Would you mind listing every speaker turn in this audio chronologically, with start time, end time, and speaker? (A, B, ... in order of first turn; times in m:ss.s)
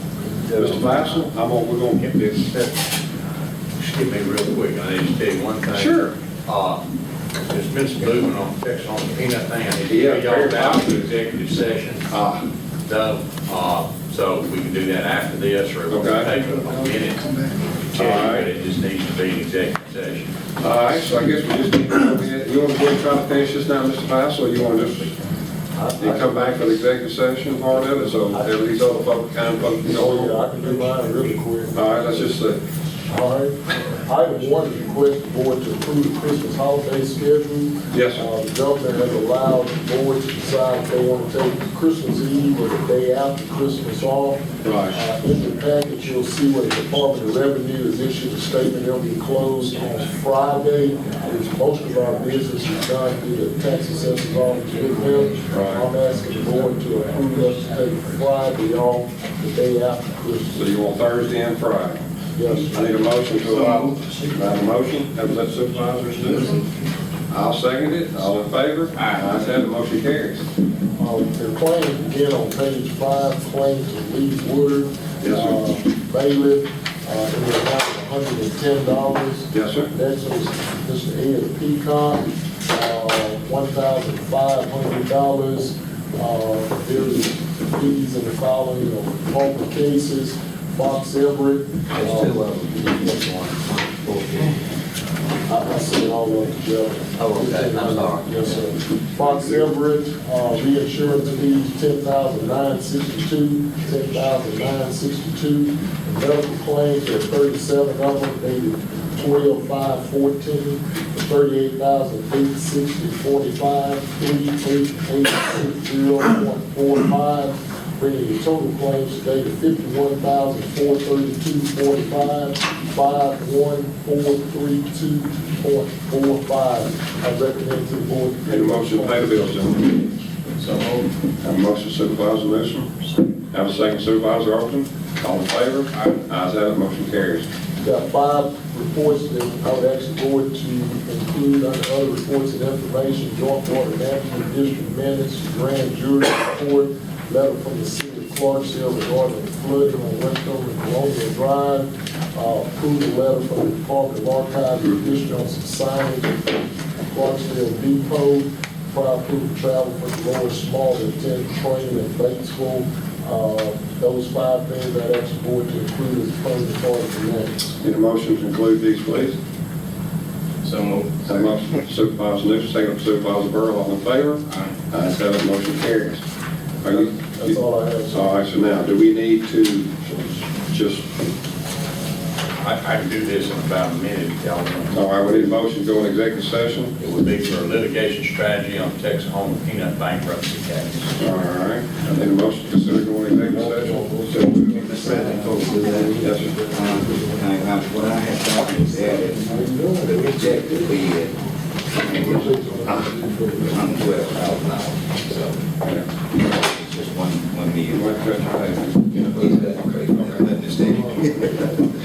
0:00.4-0:01.0 A
0:00.6-0:02.4 B
0:02.0-0:02.7 C
0:03.8-0:06.8 C
0:05.7-0:06.1 B
0:07.5-0:12.1 C
0:09.9-0:11.1 B
0:12.1-0:12.4 B
0:12.8-0:17.4 C
0:15.9-0:16.3 B
0:17.9-0:20.3 C
0:18.0-0:18.5 B
0:20.6-0:25.2 B
0:25.8-0:26.7 A
0:26.0-0:30.4 B
0:27.8-0:28.5 A
0:29.8-0:31.8 D
0:31.7-0:32.6 B
0:33.1-1:00.6 D
0:37.9-0:38.2 B
0:44.6-0:44.9 B
0:55.5-0:55.8 B
1:00.5-1:02.0 B
1:02.3-1:02.9 D
1:02.7-1:06.6 B
1:03.4-1:04.2 E
1:06.2-1:06.6 E
1:07.3-1:10.4 B
1:09.0-1:09.2 E
1:11.0-1:32.3 D
1:15.2-1:15.6 B
1:19.5-1:19.9 B
1:32.0-1:34.6 A
1:35.4-2:09.4 D
1:37.2-1:38.6 A
2:08.4-2:10.0 B
2:10.6-2:11.1 E
2:11.4-2:12.9 B
2:13.5-2:17.4 B
2:17.8-2:47.7 D
2:47.8-2:49.4 B
2:50.6-2:51.5 E
2:51.2-2:56.2 B
2:56.8-2:57.6 B
2:56.9-2:58.2 D
2:58.1-3:01.0 B
3:02.6-3:05.0 C
3:04.9-3:06.9 B
3:07.0-3:11.2 C
3:11.2-3:14.8 B
3:13.5-3:17.4 D
3:14.7-3:21.3 F
3:14.9-3:15.9 E
3:16.2-3:16.6 B
3:18.9-3:20.9 D
3:22.0-3:24.0 D
3:22.1-3:25.6 F
3:26.4-3:28.2 F
3:27.9-3:29.4 B
3:29.2-3:31.8 F
3:30.9-3:31.5 D